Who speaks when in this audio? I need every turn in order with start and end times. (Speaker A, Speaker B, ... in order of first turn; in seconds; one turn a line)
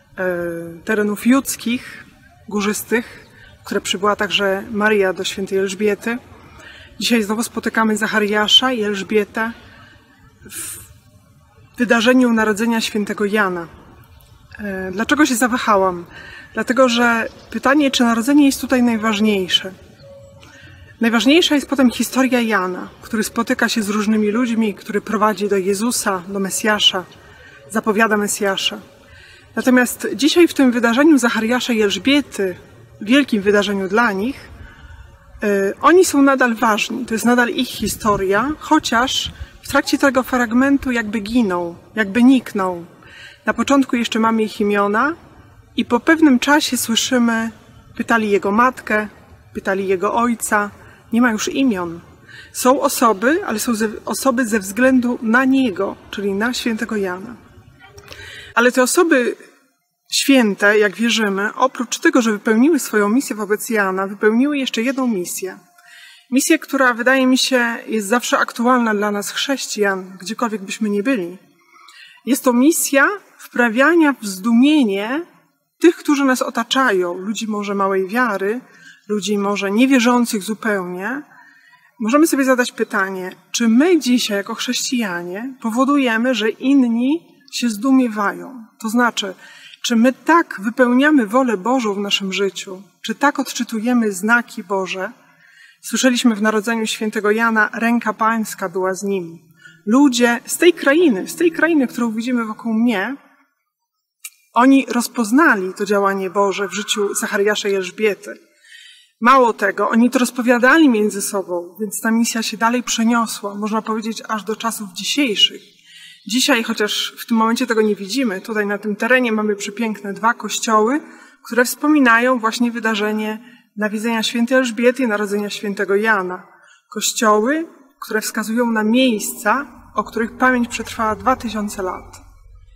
Speaker A: 0.1-6.2
Speaker A: 7.0-9.5
Speaker A: 10.4-10.8
Speaker A: 11.8-13.7
Speaker A: 14.6-19.7
Speaker A: 21.0-27.1
Speaker A: 27.7-28.8
Speaker A: 29.5-34.5
Speaker A: 35.4-42.9
Speaker A: 43.4-45.1
Speaker A: 45.7-57.4
Speaker A: 58.5-59.4
Speaker A: 60.1-65.6
Speaker A: 66.3-71.4
Speaker A: 72.2-75.2
Speaker A: 75.8-81.2
Speaker A: 82.0-95.1
Speaker A: 95.8-103.2
Speaker A: 104.5-108.4
Speaker A: 109.2-115.6
Speaker A: 116.2-132.2